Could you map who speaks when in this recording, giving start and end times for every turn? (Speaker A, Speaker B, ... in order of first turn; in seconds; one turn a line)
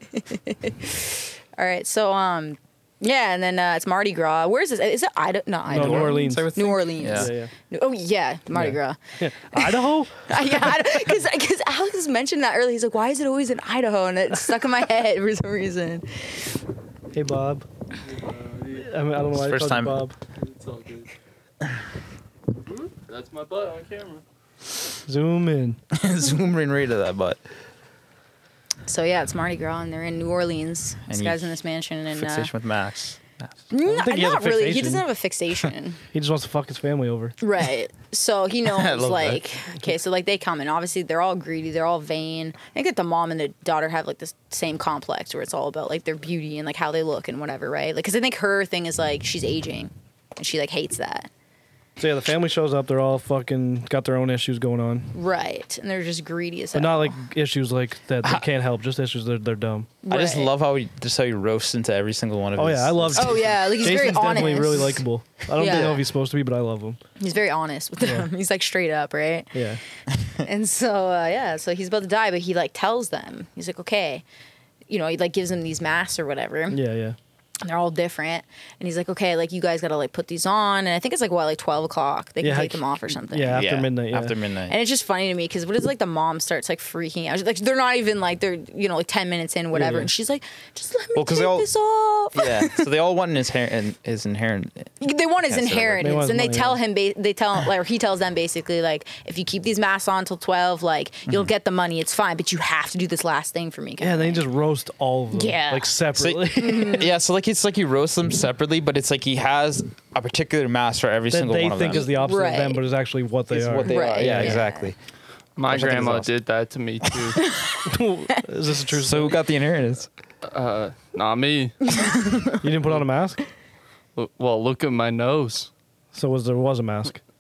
Speaker A: 0.2-9.0
Speaker B: 5.7-6.5
Speaker C: 5.7-7.3
Speaker B: 7.1-7.5
Speaker B: 8.6-10.8
Speaker A: 9.5-16.5
Speaker B: 17.1-17.6
Speaker D: 18.1-18.9
Speaker B: 18.8-20.1
Speaker C: 19.3-20.0
Speaker D: 20.4-21.1
Speaker D: 22.7-24.2
Speaker B: 25.1-25.8
Speaker C: 25.9-27.4
Speaker A: 28.9-32.5
Speaker C: 31.1-31.5
Speaker C: 32.1-33.6
Speaker A: 33.7-36.0
Speaker B: 33.8-35.0
Speaker B: 36.1-37.4
Speaker A: 37.4-51.3
Speaker C: 38.7-39.4
Speaker B: 52.0-55.1
Speaker A: 55.1-57.2
Speaker B: 56.7-59.9
Speaker A: 60.0-60.5
Speaker C: 60.1-63.9
Speaker B: 62.6-67.0
Speaker A: 63.2-66.0
Speaker A: 67.2-69.6
Speaker B: 68.0-68.3
Speaker B: 69.5-69.8
Speaker A: 70.4-74.2
Speaker A: 74.9-76.8
Speaker B: 76.7-77.2
Speaker A: 77.6-83.6
Speaker B: 82.4-84.4
Speaker C: 83.5-84.8
Speaker A: 84.7-92.8
Speaker B: 89.7-90.1
Speaker C: 91.2-91.7
Speaker C: 92.3-94.9
Speaker A: 95.0-104.5
Speaker C: 95.5-96.3
Speaker B: 96.0-96.8
Speaker B: 104.0-107.0
Speaker A: 105.3-106.0
Speaker C: 106.2-112.1
Speaker A: 106.6-107.1
Speaker B: 111.3-114.6
Speaker A: 111.9-112.9
Speaker C: 113.5-115.0
Speaker A: 113.8-114.9
Speaker D: 115.6-117.4
Speaker C: 115.7-116.3
Speaker C: 117.1-117.3
Speaker A: 117.4-118.4
Speaker B: 117.9-119.4
Speaker C: 119.0-120.1
Speaker D: 120.4-121.8
Speaker A: 122.0-122.5
Speaker B: 122.6-123.4
Speaker D: 124.2-125.7
Speaker B: 126.1-127.2